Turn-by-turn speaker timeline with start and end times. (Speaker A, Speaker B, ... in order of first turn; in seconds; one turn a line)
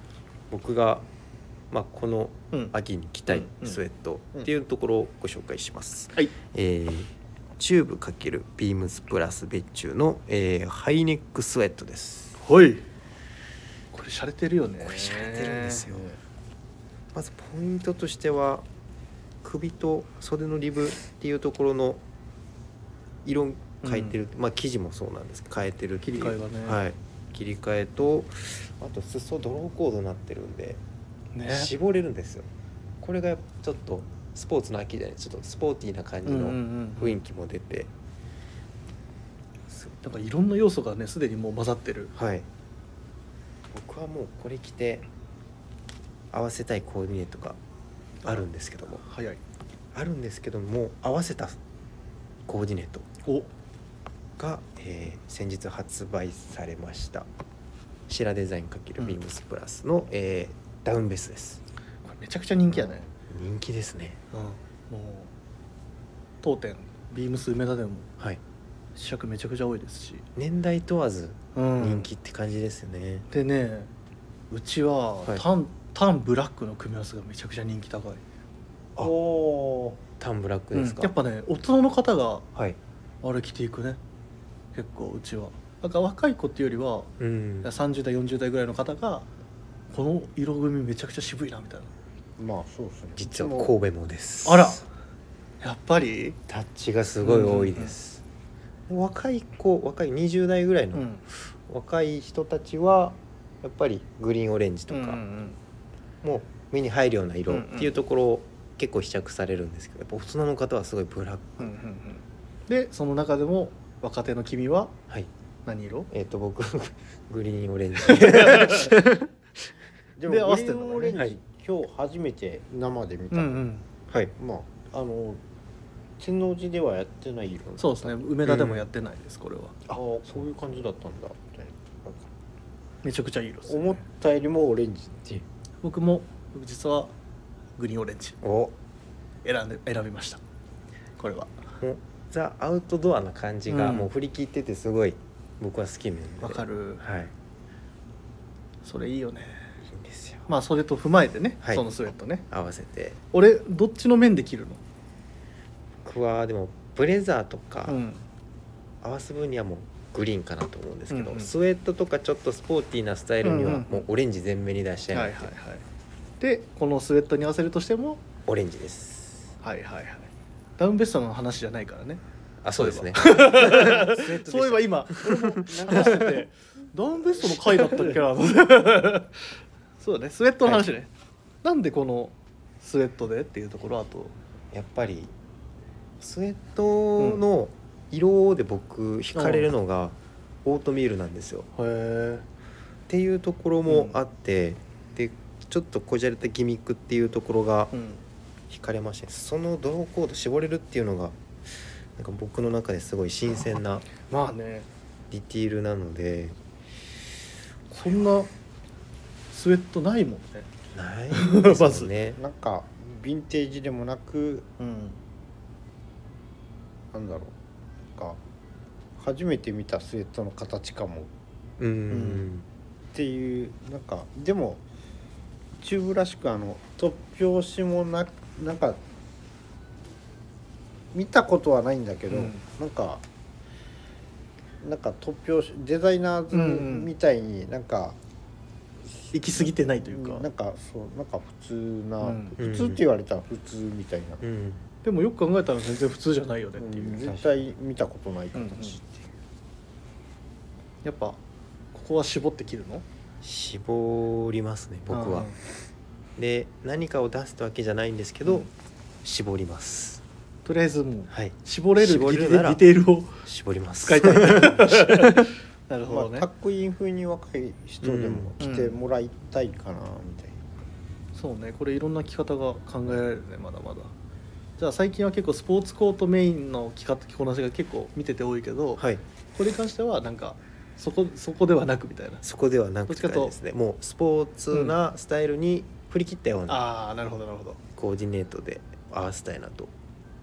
Speaker A: 0.5-1.1
Speaker A: 1.7-12.3
Speaker B: 3.3-3.8
Speaker B: 12.4-12.8
Speaker B: 13.9-15.8
Speaker A: 14.8-16.1
Speaker A: 17.1-18.6
Speaker A: 19.4-22.0
Speaker A: 23.2-30.8
Speaker B: 23.8-24.2
Speaker B: 26.0-26.8
Speaker B: 31.3-31.7
Speaker A: 31.5-32.5
Speaker A: 33.0-37.9
Speaker B: 36.2-37.2
Speaker B: 40.0-42.1
Speaker A: 42.1-42.5
Speaker A: 43.7-45.1
Speaker A: 46.3-47.6
Speaker A: 48.2-49.0
Speaker B: 49.0-49.4
Speaker A: 49.9-51.6
Speaker A: 52.5-53.0
Speaker A: 54.4-57.3
Speaker A: 58.1-61.6
Speaker B: 62.0-63.0
Speaker A: 62.7-64.2
Speaker B: 64.3-65.3
Speaker B: 66.4-68.1
Speaker B: 69.0-70.2
Speaker A: 70.3-73.3
Speaker B: 71.5-72.1
Speaker B: 73.3-73.9
Speaker B: 74.5-78.2
Speaker C: 79.0-80.0
Speaker A: 80.2-81.1
Speaker B: 80.7-82.5
Speaker B: 83.2-84.0
Speaker B: 84.7-87.1
Speaker A: 87.2-87.7
Speaker B: 87.6-89.3
Speaker B: 89.9-91.9
Speaker C: 92.4-93.7
Speaker A: 93.2-94.8
Speaker B: 94.4-94.8
Speaker B: 95.6-96.4
Speaker A: 96.5-98.2
Speaker B: 97.2-97.9
Speaker A: 98.9-105.2
Speaker B: 100.9-101.2
Speaker B: 104.9-105.6
Speaker A: 106.2-111.7
Speaker B: 107.5-107.9
Speaker B: 111.6-114.9
Speaker B: 115.7-116.1
Speaker A: 116.1-119.2
Speaker B: 118.0-119.2
Speaker C: 120.2-123.6
Speaker B: 120.3-121.2
Speaker B: 123.3-123.8
Speaker C: 124.4-125.4
Speaker C: 126.2-128.1
Speaker B: 127.8-129.8
Speaker A: 128.4-128.8
Speaker C: 129.9-132.2
Speaker B: 133.0-134.0
Speaker C: 133.7-135.4
Speaker B: 135.8-137.1
Speaker B: 137.8-138.4
Speaker A: 138.4-138.7
Speaker B: 139.4-140.4
Speaker B: 141.2-141.6
Speaker A: 141.8-147.3
Speaker B: 143.7-144.1
Speaker B: 146.4-147.0
Speaker B: 148.8-149.6
Speaker A: 149.8-150.4
Speaker B: 150.5-152.4
Speaker A: 152.5-153.2
Speaker B: 153.3-154.8
Speaker A: 156.0-158.0
Speaker B: 157.8-158.2
Speaker A: 159.0-165.5
Speaker B: 161.1-161.5
Speaker B: 163.4-164.0
Speaker B: 165.1-165.8
Speaker B: 166.4-168.2
Speaker A: 168.4-169.5
Speaker B: 169.6-172.2
Speaker A: 172.6-176.4
Speaker B: 172.8-179.5
Speaker C: 175.9-176.3
Speaker B: 180.0-181.1
Speaker B: 181.6-184.3
Speaker A: 184.7-185.3
Speaker A: 186.2-191.7
Speaker B: 187.2-187.4
Speaker B: 189.3-189.7
Speaker B: 191.7-192.4
Speaker A: 193.1-197.9
Speaker B: 193.9-194.2
Speaker B: 197.9-198.2
Speaker A: 198.7-204.1
Speaker B: 204.2-204.9
Speaker A: 205.3-206.6
Speaker B: 207.9-208.5
Speaker B: 209.5-210.7
Speaker A: 210.9-212.4
Speaker B: 211.3-212.1
Speaker C: 212.3-214.7
Speaker B: 214.8-215.2
Speaker C: 217.1-217.5
Speaker C: 219.2-221.3
Speaker A: 221.8-222.7
Speaker B: 222.1-222.5
Speaker C: 223.1-224.8
Speaker C: 225.8-229.0
Speaker C: 231.1-233.2
Speaker B: 232.3-232.6
Speaker C: 234.8-238.2
Speaker B: 236.5-237.1
Speaker B: 239.3-240.4
Speaker C: 239.6-244.4
Speaker B: 242.2-242.5
Speaker A: 242.6-243.0
Speaker A: 244.4-244.8
Speaker B: 245.0-247.3
Speaker C: 246.8-249.2
Speaker B: 248.5-249.0
Speaker B: 251.0-251.4
Speaker B: 251.9-253.0
Speaker A: 253.4-255.5
Speaker B: 255.1-255.6
Speaker A: 256.4-258.7
Speaker A: 259.2-260.2
Speaker B: 260.6-263.4
Speaker A: 261.3-262.8
Speaker A: 263.4-265.4
Speaker B: 264.0-266.5
Speaker C: 266.1-270.6
Speaker A: 268.0-268.5
Speaker B: 268.6-269.0
Speaker B: 271.3-274.1
Speaker B: 274.8-282.4
Speaker A: 282.4-286.8
Speaker B: 283.1-283.5
Speaker B: 286.7-287.8
Speaker A: 287.9-289.9